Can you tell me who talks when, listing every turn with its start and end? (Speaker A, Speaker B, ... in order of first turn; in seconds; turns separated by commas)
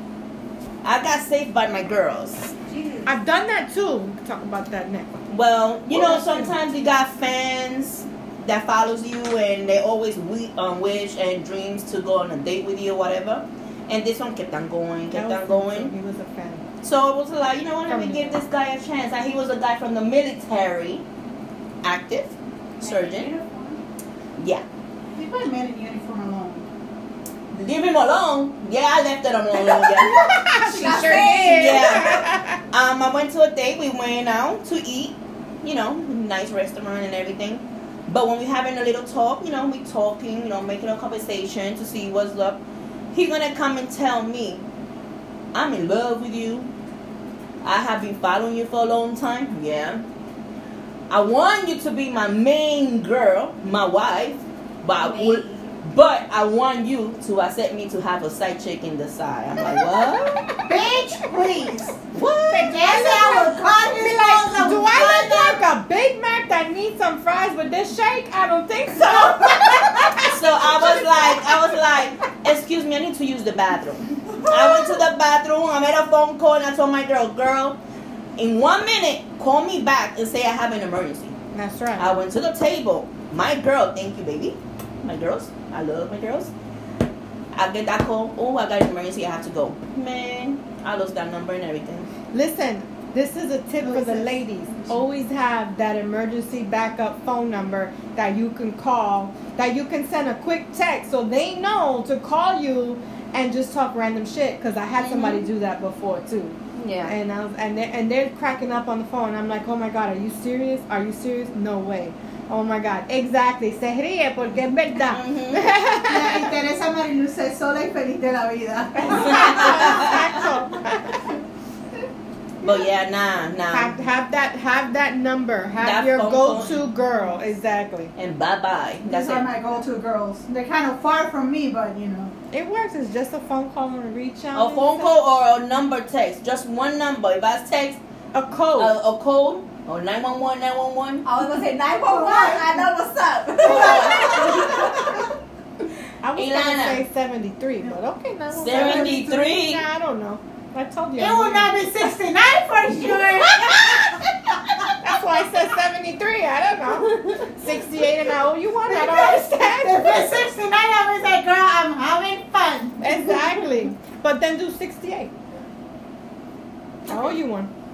Speaker A: 0.8-2.5, Speaker B: 2.7-3.1, Speaker C: 3.0-5.2, Speaker A: 5.3-15.9, Speaker C: 5.9-6.6, Speaker C: 15.1-16.6, Speaker A: 16.8-21.0, Speaker C: 17.9-18.4, Speaker A: 21.8-23.3, Speaker B: 22.8-23.8, Speaker A: 24.4-24.6, Speaker D: 25.1-26.7, Speaker A: 27.5-30.2, Speaker C: 29.8-32.6, Speaker B: 30.0-32.2, Speaker A: 31.1-42.6, Speaker A: 43.1-44.6, Speaker A: 45.5-46.7, Speaker A: 47.6-50.0, Speaker A: 51.1-60.3, Speaker B: 54.9-55.7, Speaker C: 60.3-60.7, Speaker D: 60.6-62.0, Speaker A: 62.1-63.1, Speaker D: 62.5-65.6, Speaker C: 62.7-71.5, Speaker A: 70.2-77.8, Speaker A: 78.4-81.3, Speaker C: 81.5-82.2, Speaker A: 82.0-86.5, Speaker A: 87.5-92.1, Speaker C: 92.3-116.5, Speaker D: 93.8-95.0, Speaker A: 105.0-105.5, Speaker A: 106.7-107.1, Speaker A: 115.0-115.7, Speaker D: 116.0-120.5, Speaker C: 119.0-121.3, Speaker A: 119.1-120.3, Speaker A: 122.6-124.0, Speaker C: 123.7-128.1, Speaker A: 125.8-126.8, Speaker A: 128.2-129.6, Speaker D: 129.1-132.3, Speaker C: 132.5-135.2, Speaker A: 134.5-138.0, Speaker C: 138.3-139.0, Speaker A: 138.8-141.2, Speaker B: 141.2-145.3, Speaker D: 142.0-142.9, Speaker A: 143.6-144.7, Speaker D: 143.6-144.8, Speaker C: 146.2-151.8, Speaker A: 146.3-147.0, Speaker A: 148.5-149.8, Speaker D: 148.6-149.3, Speaker D: 151.2-154.9, Speaker C: 153.7-154.2, Speaker C: 155.0-160.4, Speaker A: 157.1-157.4, Speaker D: 158.9-163.4, Speaker C: 163.0-165.3, Speaker C: 167.1-167.7